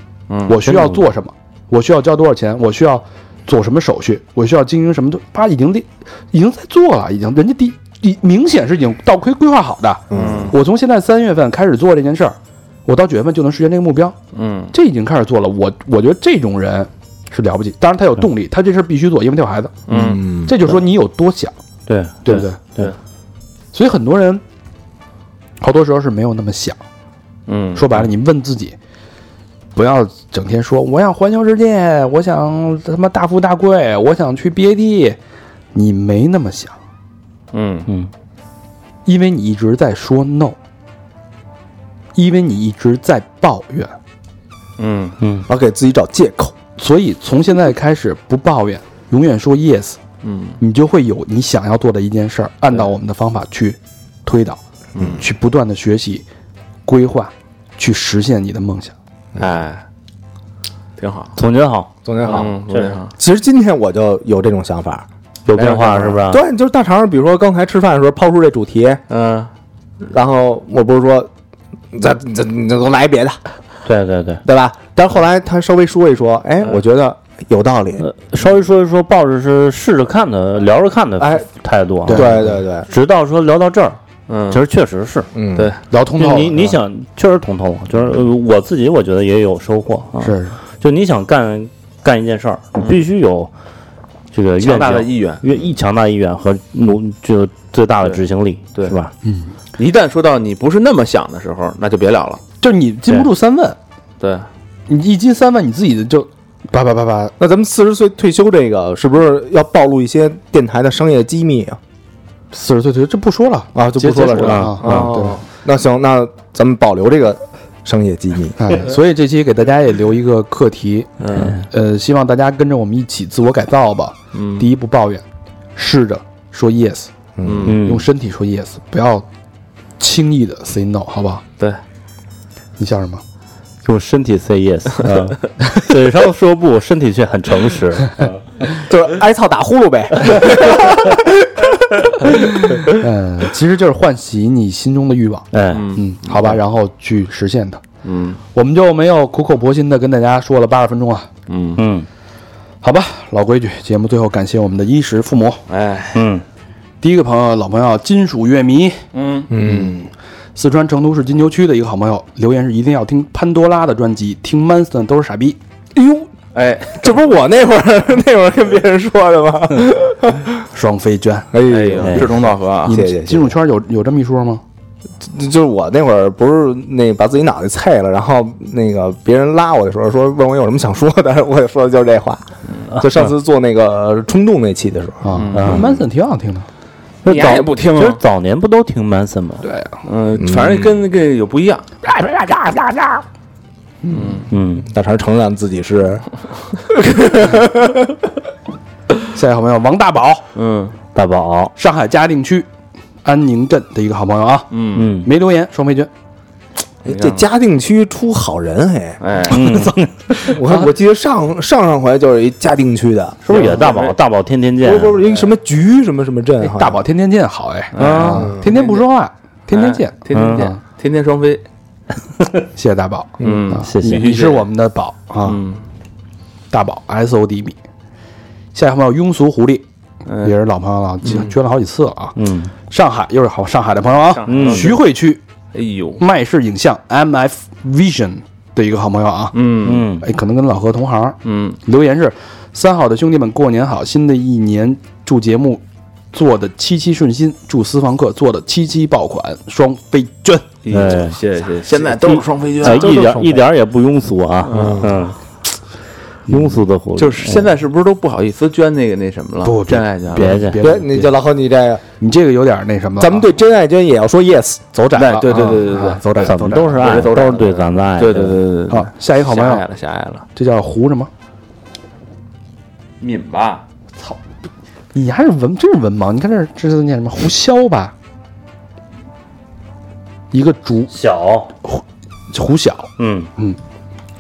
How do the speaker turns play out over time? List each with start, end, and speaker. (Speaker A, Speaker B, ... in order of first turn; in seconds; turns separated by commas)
Speaker A: 0.3-0.6, Speaker B: 0.5-14.2, Speaker C: 0.7-1.0, Speaker D: 10.1-10.5, Speaker A: 10.1-10.5, Speaker A: 14.3-14.7, Speaker B: 14.7-19.8, Speaker A: 19.9-20.2, Speaker D: 19.9-20.6, Speaker B: 20.5-21.5, Speaker C: 21.9-22.9, Speaker B: 22.2-22.6, Speaker B: 23.7-24.4, Speaker B: 25.6-26.8, Speaker A: 27.5-27.9, Speaker B: 27.8-28.8, Speaker B: 29.8-35.2, Speaker B: 35.7-36.8, Speaker A: 37.5-37.9, Speaker B: 39.0-40.6, Speaker B: 42.1-43.9, Speaker A: 44.8-45.2, Speaker C: 45.2-45.5, Speaker D: 45.5-46.5, Speaker B: 46.8-50.0, Speaker A: 50.2-50.6, Speaker B: 50.6-54.6, Speaker A: 55.0-55.2, Speaker B: 55.2-56.2, Speaker B: 56.9-58.9, Speaker A: 59.4-59.8, Speaker A: 61.0-61.3, Speaker C: 61.4-61.9, Speaker D: 62.0-62.6, Speaker A: 62.2-63.1, Speaker D: 63.1-65.1, Speaker C: 65.5-66.4, Speaker A: 65.5-66.2, Speaker D: 65.6-69.0, Speaker A: 69.1-69.5, Speaker D: 70.0-71.3, Speaker D: 71.9-73.4, Speaker C: 73.8-74.4, Speaker D: 74.5-78.1, Speaker C: 78.0-84.0, Speaker D: 81.2-81.5, Speaker B: 82.1-82.5, Speaker D: 82.1-82.9, Speaker A: 84.3-84.6, Speaker C: 84.5-85.3, Speaker D: 85.3-85.7, Speaker B: 85.9-86.8, Speaker C: 86.2-93.5, Speaker B: 90.2-90.6, Speaker C: 94.3-99.1, Speaker A: 94.6-95.4, Speaker B: 99.2-99.5, Speaker A: 99.8-102.4, Speaker B: 102.6-103.8, Speaker A: 104.2-104.5, Speaker B: 104.9-107.3, Speaker D: 107.4-111.8, Speaker B: 112.5-115.4, Speaker D: 113.8-118.8, Speaker C: 114.4-115.1, Speaker B: 118.6-121.1, Speaker A: 121.2-121.6, Speaker C: 121.3-121.6, Speaker B: 121.7-125.2, Speaker A: 124.3-124.7, Speaker B: 125.8-127.1, Speaker D: 127.4-127.8, Speaker A: 127.4-127.8, Speaker C: 127.7-128.1, Speaker B: 127.7-129.3, Speaker B: 130.0-131.4, Speaker B: 132.8-133.2, Speaker C: 133.8-138.4, Speaker D: 138.8-142.3, Speaker B: 142.8-147.8, Speaker C: 145.5-145.9, Speaker A: 145.7-146.6, Speaker A: 148.0-148.4, Speaker B: 148.6-151.3, Speaker A: 151.5-151.8, Speaker C: 151.8-152.1, Speaker B: 152.8-155.6, Speaker A: 155.7-156.3, Speaker C: 156.1-156.4, Speaker B: 157.0-159.0, Speaker A: 159.1-159.5, Speaker D: 159.5-160.1, Speaker B: 160.6-165.6, Speaker D: 165.9-166.3, Speaker A: 166.5-167.3, Speaker D: 167.0-170.6, Speaker B: 170.7-171.5, Speaker D: 171.5-173.6, Speaker A: 171.7-173.0, Speaker B: 172.8-174.6, Speaker D: 175.2-186.0, Speaker B: 185.2-186.7, Speaker A: 185.3-185.8, Speaker C: 185.5-185.9, Speaker C: 187.2-189.6, Speaker A: 187.2-188.2, Speaker B: 189.6-189.9, Speaker A: 190.1-191.8, Speaker D: 190.4-191.0, Speaker B: 192.0-193.2, Speaker B: 194.0-194.4, Speaker A: 194.1-194.5, Speaker C: 194.5-194.9, Speaker D: 194.8-196.3, Speaker D: 196.8-198.2, Speaker B: 199.3-200.4, Speaker A: 200.6-200.9, Speaker C: 201.1-201.7, Speaker B: 201.8-202.7, Speaker B: 203.2-206.1, Speaker A: 204.7-205.1, Speaker C: 204.9-205.3, Speaker A: 207.1-207.4, Speaker D: 207.1-209.2, Speaker A: 209.2-209.7, Speaker C: 209.5-210.1, Speaker D: 210.4-213.7, Speaker C: 213.4-215.2, Speaker A: 213.5-214.2, Speaker D: 214.8-217.0, Speaker B: 216.6-220.8, Speaker A: 217.9-219.1, Speaker C: 218.0-218.5, Speaker D: 218.3-218.7, Speaker A: 219.7-221.6, Speaker C: 220.3-220.7, Speaker B: 222.8-225.6, Speaker D: 223.4-223.7, Speaker A: 223.4-224.7, Speaker C: 223.9-224.2, Speaker A: 225.4-225.8, Speaker B: 226.7-227.8, Speaker B: 228.8-229.8, Speaker A: 230.3-230.5, Speaker B: 230.4-232.4, Speaker C: 232.4-232.7, Speaker B: 232.9-235.4, Speaker A: 234.3-235.0, Speaker C: 234.5-235.0, Speaker A: 235.7-236.2, Speaker B: 236.2-239.6, Speaker A: 239.5-240.1, Speaker C: 239.8-240.3, Speaker B: 240.2-245.8, Speaker A: 241.4-241.8, Speaker B: 246.3-250.7, Speaker A: 250.8-253.6, Speaker C: 250.9-251.4, Speaker C: 252.2-255.4, Speaker A: 254.6-255.2, Speaker D: 254.7-255.2, Speaker C: 256.5-257.7, Speaker A: 257.2-260.6, Speaker B: 259.6-261.3, Speaker C: 260.3-261.1, Speaker D: 260.8-262.0, Speaker B: 262.2-263.5, Speaker D: 263.2-264.9, Speaker B: 264.9-267.1, Speaker A: 265.1-270.4, Speaker C: 266.5-268.6, Speaker B: 268.9-269.8, Speaker B: 270.6-271.3, Speaker A: 273.2-273.8, Speaker B: 275.1-278.1, Speaker B: 280.5-281.1, Speaker C: 281.1-281.7, Speaker B: 281.8-283.8, Speaker C: 283.2-283.5